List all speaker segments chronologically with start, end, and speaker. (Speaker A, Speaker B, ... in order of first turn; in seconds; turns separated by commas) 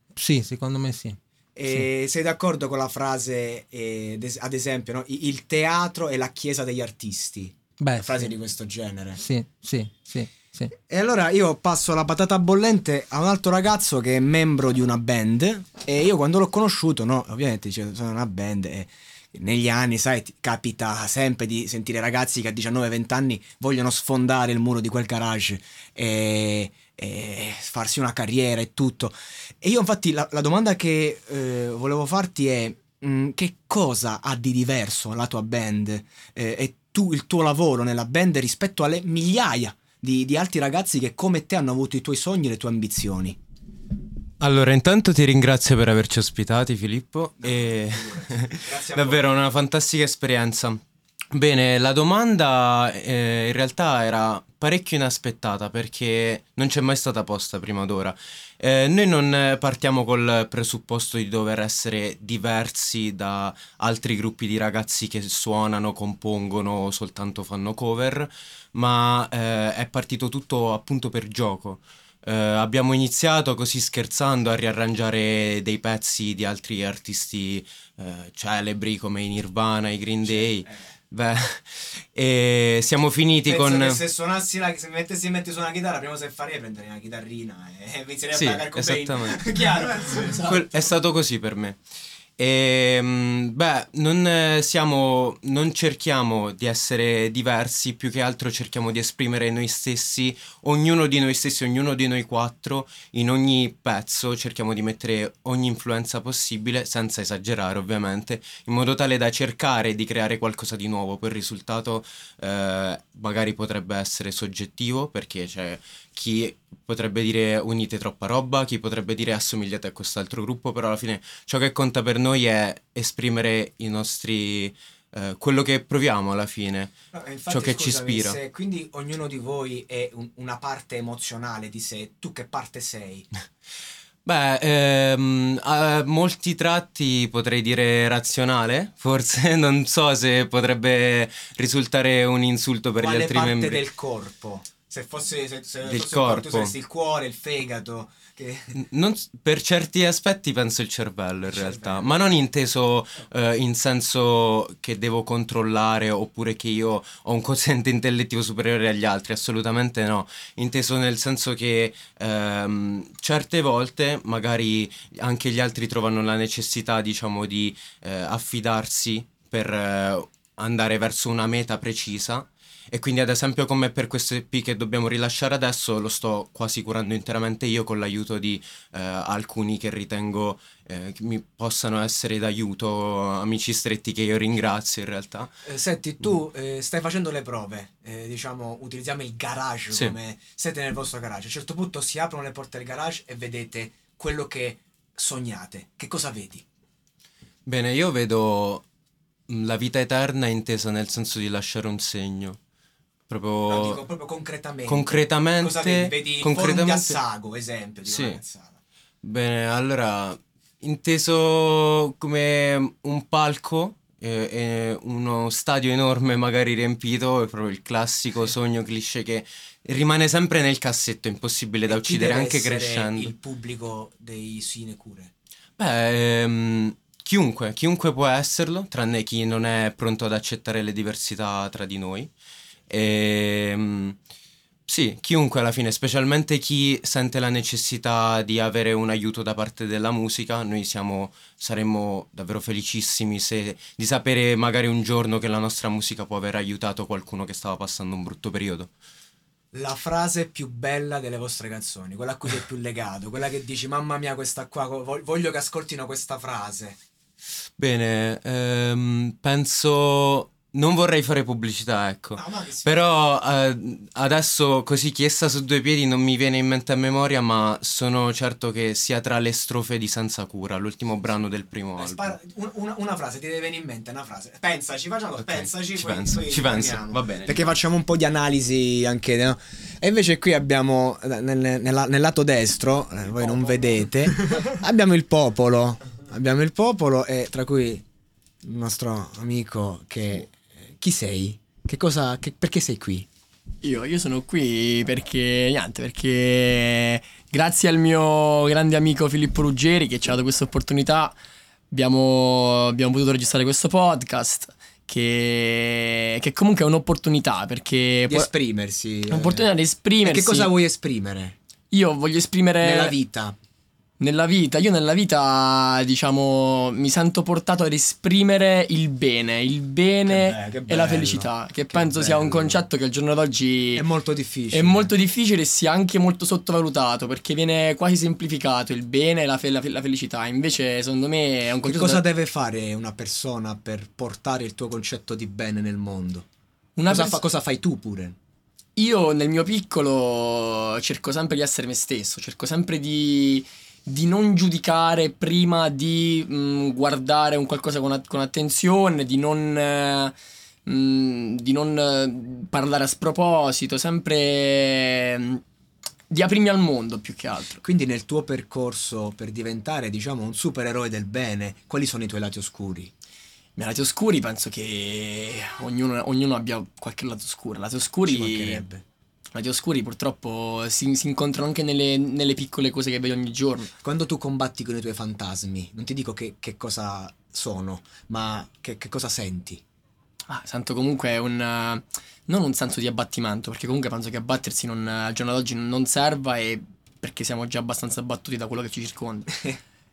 Speaker A: 0.2-1.9, Speaker B: 1.6-9.2, Speaker A: 7.8-8.3, Speaker A: 9.2-10.7, Speaker B: 10.8-43.4, Speaker C: 44.4-50.8, Speaker B: 47.4-49.2, Speaker C: 51.3-84.0, Speaker B: 80.2-80.8, Speaker B: 83.5-90.7, Speaker C: 88.3-89.7, Speaker C: 90.2-91.8, Speaker C: 92.4-127.0, Speaker B: 127.1-133.3, Speaker C: 127.5-128.4, Speaker C: 134.2-143.9, Speaker B: 143.0-148.8, Speaker C: 145.9-146.7, Speaker C: 148.8-185.5, Speaker B: 151.5-152.1, Speaker B: 185.6-196.7, Speaker C: 197.7-198.8, Speaker C: 199.5-202.6, Speaker C: 203.3-204.0, Speaker B: 203.7-208.8, Speaker C: 204.9-207.2, Speaker C: 208.1-208.4, Speaker C: 209.2-223.3, Speaker B: 221.9-225.3, Speaker C: 225.8-232.3, Speaker C: 232.9-234.2, Speaker C: 234.9-248.9, Speaker B: 249.7-257.0, Speaker C: 257.8-272.4, Speaker B: 262.4-263.1, Speaker B: 272.0-288.0, Speaker C: 275.4-277.8, Speaker B: 288.6-293.3, Speaker D: 293.8-301.4, Speaker D: 301.9-308.5, Speaker B: 308.3-309.7, Speaker D: 309.3-310.7, Speaker B: 310.2-311.6, Speaker D: 311.9-313.1, Speaker B: 312.8-313.6, Speaker D: 314.2-324.0, Speaker B: 320.3-322.8, Speaker B: 323.9-325.1, Speaker D: 324.7-332.2, Speaker B: 331.8-336.5, Speaker D: 337.0-337.4, Speaker B: 337.1-338.4, Speaker D: 339.0-350.3, Speaker D: 350.9-355.6, Speaker D: 356.3-357.8, Speaker B: 357.8-363.1, Speaker D: 363.8-368.9, Speaker B: 368.3-369.0, Speaker D: 369.5-373.9, Speaker B: 374.0-379.8, Speaker D: 380.5-389.7